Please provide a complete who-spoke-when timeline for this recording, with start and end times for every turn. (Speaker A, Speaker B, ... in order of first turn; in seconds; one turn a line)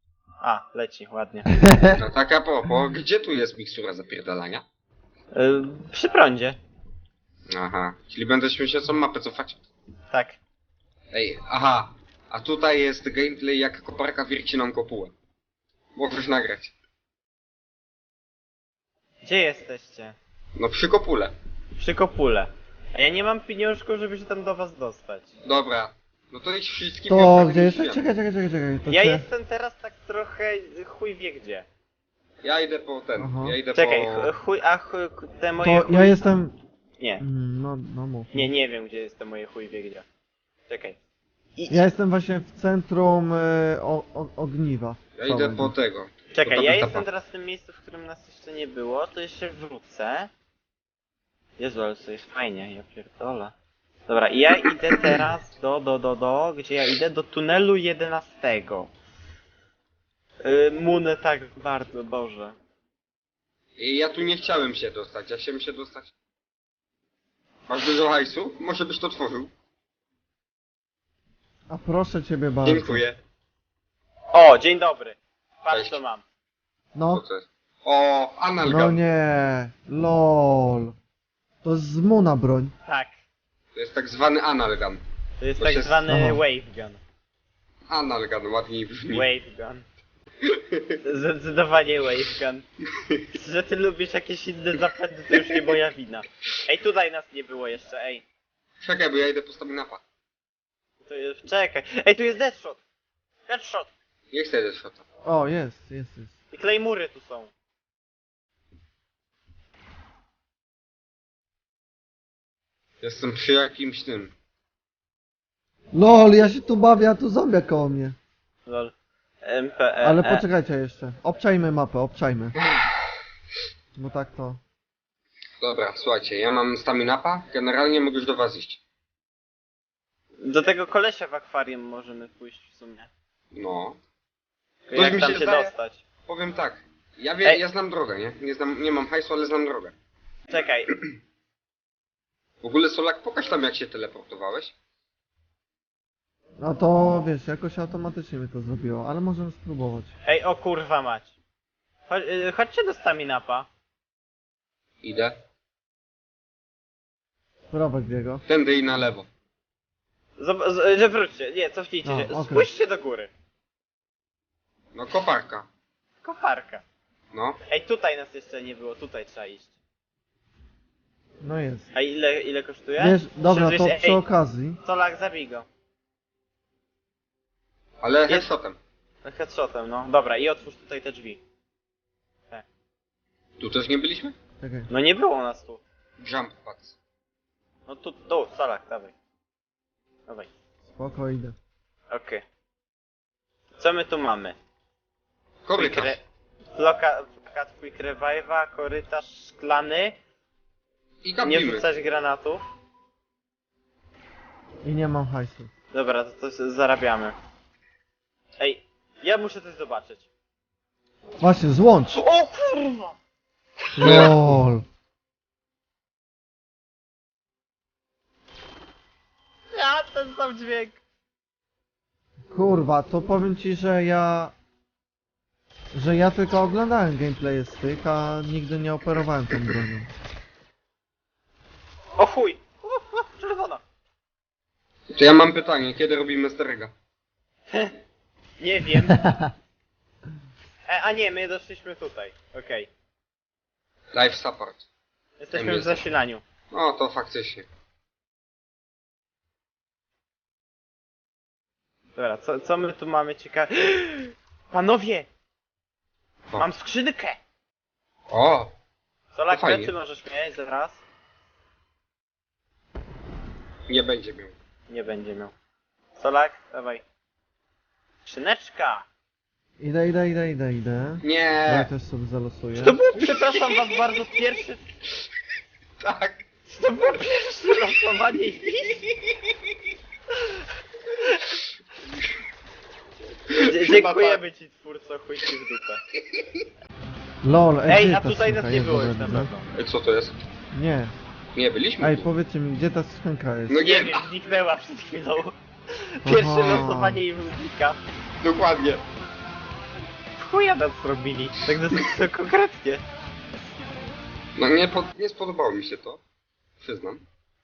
Speaker A: 0.4-1.5
Speaker B: 1.5-2.0
Speaker C: 1.9-4.6
Speaker A: 5.3-6.6
Speaker C: 7.5-9.6
Speaker A: 10.1-10.4
Speaker C: 11.1-15.1
Speaker C: 15.9-16.7
Speaker A: 19.2-20.1
Speaker C: 20.6-21.3
Speaker A: 21.8-25.3
Speaker C: 25.4-28.0
Speaker B: 27.1-29.2
Speaker A: 28.9-31.6
Speaker C: 32.4-34.3
Speaker B: 33.2-33.6
Speaker A: 33.7-36.3
Speaker B: 35.6-36.5
Speaker B: 37.2-38.5
Speaker A: 38.3-40.0
Speaker A: 40.7-41.0
Speaker B: 41.7-45.7
Speaker C: 45.1-47.0
Speaker A: 46.3-50.3
Speaker A: 51.6-53.5
Speaker A: 54.1-58.9
Speaker A: 60.4-62.5
Speaker C: 63.8-66.1
Speaker C: 67.7-69.5
Speaker B: 71.7-73.0
Speaker C: 72.6-73.2
Speaker A: 74.3-76.2
Speaker C: 75.7-76.0
Speaker B: 76.9-77.2
Speaker C: 77.1-79.0
Speaker B: 78.6-81.0
Speaker B: 81.6-82.7
Speaker A: 82.8-83.2
Speaker C: 83.7-85.0
Speaker A: 85.4-87.0
Speaker C: 85.6-86.0
Speaker B: 86.1-86.4
Speaker C: 87.9-89.3
Speaker A: 89.1-89.8
Speaker C: 90.4-91.0
Speaker A: 91.0-92.7
Speaker A: 93.3-98.2
Speaker C: 98.8-100.0
Speaker A: 101.0-102.8
Speaker A: 103.5-103.9
Speaker C: 104.3-105.0
Speaker B: 105.2-106.3
Speaker A: 106.5-107.5
Speaker C: 113.0-114.3
Speaker B: 115.9-118.2
Speaker A: 118.7-120.4
Speaker B: 120.0-122.5
Speaker C: 122.6-122.9
Speaker B: 124.0-124.6
Speaker C: 125.6-128.8
Speaker A: 130.4-133.1
Speaker C: 133.5-134.0
Speaker A: 134.9-136.0
Speaker C: 134.9-135.7
Speaker C: 136.3-139.9
Speaker A: 140.5-140.9
Speaker C: 142.6-144.7
Speaker B: 146.6-150.1
Speaker A: 150.2-151.3
Speaker A: 152.1-153.7
Speaker C: 155.0-155.4
Speaker B: 157.7-158.4
Speaker C: 158.5-159.3
Speaker A: 160.4-163.3
Speaker B: 162.0-162.7
Speaker C: 164.9-165.7
Speaker A: 166.2-166.8
Speaker C: 167.3-167.6
Speaker A: 167.7-169.7
Speaker B: 171.4-171.9
Speaker A: 171.9-174.2
Speaker B: 173.0-174.8
Speaker A: 174.8-175.7
Speaker C: 178.0-178.8
Speaker A: 179.2-181.4
Speaker C: 183.6-184.3
Speaker B: 184.6-184.9
Speaker A: 184.9-185.8
Speaker C: 186.2-187.0
Speaker A: 187.9-189.1
Speaker B: 190.9-191.6
Speaker A: 192.1-192.4
Speaker A: 193.8-194.6
Speaker C: 195.7-196.2
Speaker A: 195.8-196.2
Speaker A: 196.7-200.2
Speaker C: 201.2-201.8
Speaker A: 201.4-202.6
Speaker B: 204.8-205.7
Speaker A: 205.9-207.3
Speaker A: 208.6-210.3
Speaker B: 211.4-212.1
Speaker A: 212.1-213.1
Speaker B: 214.0-214.8
Speaker A: 214.0-214.3
Speaker C: 214.0-214.4
Speaker A: 219.7-221.0
Speaker B: 222.5-224.5
Speaker B: 225.9-230.1
Speaker A: 232.2-233.8
Speaker C: 235.1-236.9
Speaker A: 237.7-237.9
Speaker A: 238.6-239.3
Speaker B: 239.1-239.5
Speaker A: 240.8-242.9
Speaker C: 244.1-244.8
Speaker A: 245.4-246.4
Speaker C: 245.5-246.1
Speaker C: 246.7-247.7
Speaker A: 252.2-255.3
Speaker A: 256.5-257.4
Speaker C: 258.3-258.7
Speaker A: 259.3-261.0
Speaker C: 259.5-259.9
Speaker C: 263.9-264.5
Speaker A: 264.9-265.5
Speaker A: 266.2-267.0
Speaker A: 268.2-269.1
Speaker B: 269.8-273.0
Speaker C: 271.2-271.9
Speaker A: 272.8-274.8
Speaker C: 273.2-273.9
Speaker C: 276.0-276.5
Speaker A: 276.7-279.0
Speaker A: 280.4-280.6
Speaker C: 283.5-284.4
Speaker A: 283.5-286.0
Speaker C: 286.1-286.6
Speaker B: 287.4-289.5
Speaker A: 287.9-289.7
Speaker C: 289.7-290.4
Speaker B: 290.7-291.1
Speaker C: 291.5-292.3
Speaker B: 292.0-293.8
Speaker C: 293.7-294.3
Speaker A: 293.8-298.0
Speaker B: 296.2-297.2
Speaker C: 298.4-299.0
Speaker A: 300.4-303.0
Speaker C: 304.6-306.2
Speaker C: 306.8-307.2